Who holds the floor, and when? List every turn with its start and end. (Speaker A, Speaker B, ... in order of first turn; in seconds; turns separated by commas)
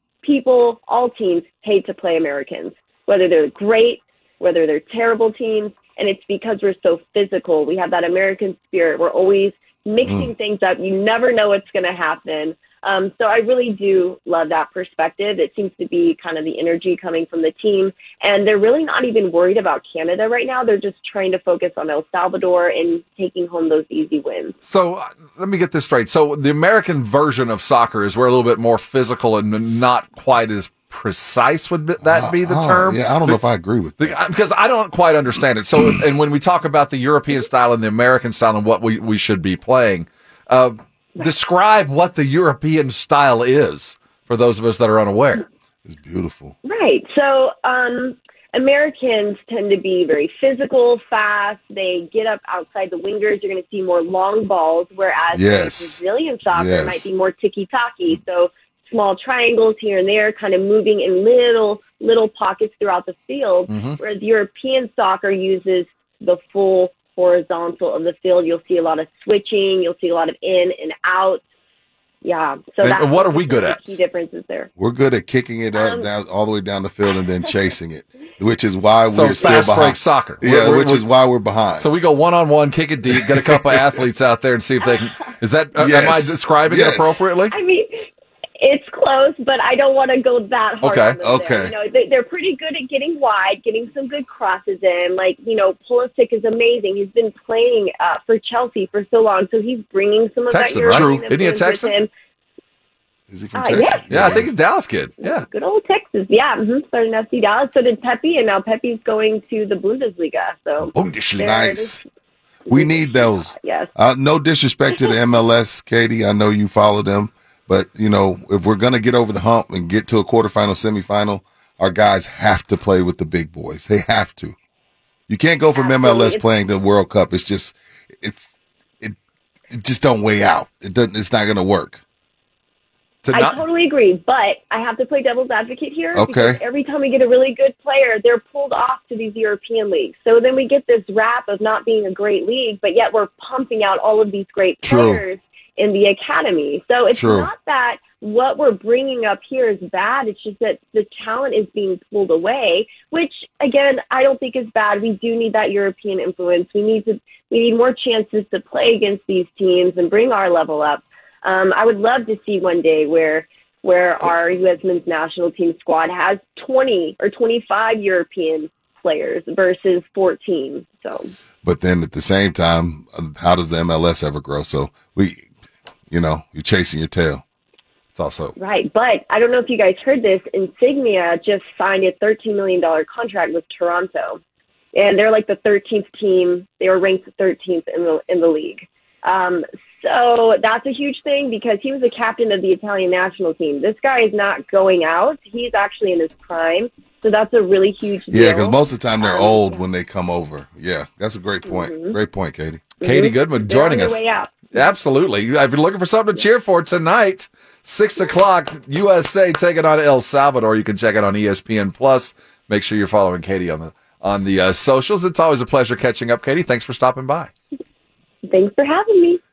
Speaker A: 0.2-24.5, Speaker B: 10.0-10.3, Speaker C: 24.6-33.4, Speaker B: 32.0-34.2, Speaker C: 34.0-45.5, Speaker B: 45.8-46.5, Speaker A: 46.6-71.4, Speaker B: 55.3-57.1, Speaker C: 63.7-64.0, Speaker A: 72.2-74.7, Speaker C: 72.8-73.8, Speaker B: 74.8-81.9, Speaker A: 75.7-76.1, Speaker C: 79.1-81.1, Speaker A: 79.4-79.7, Speaker C: 81.8-87.5, Speaker B: 83.3-83.8, Speaker B: 85.8-87.2, Speaker A: 87.5-88.1, Speaker A: 88.6-102.1, Speaker C: 90.8-91.2, Speaker B: 91.2-91.7, Speaker C: 100.5-101.9, Speaker B: 100.8-101.2, Speaker B: 103.3-104.5, Speaker A: 103.5-104.4, Speaker C: 104.1-105.5, Speaker A: 105.2-112.0, Speaker C: 110.9-111.5, Speaker B: 111.4-112.0, Speaker A: 112.7-113.9, Speaker B: 112.7-124.5, Speaker B: 125.3-129.1, Speaker A: 125.8-126.4, Speaker B: 129.7-132.0, Speaker C: 133.2-133.6, Speaker A: 133.3-171.3, Speaker B: 136.1-136.6, Speaker B: 144.8-145.2, Speaker B: 147.1-147.5, Speaker B: 171.6-175.4, Speaker B: 176.1-177.4, Speaker C: 178.1-178.5, Speaker A: 178.6-184.4, Speaker A: 184.9-199.8, Speaker B: 198.3-202.8, Speaker A: 201.7-202.2, Speaker A: 203.0-204.8, Speaker C: 203.0-204.2, Speaker C: 204.7-217.5, Speaker A: 218.4-219.4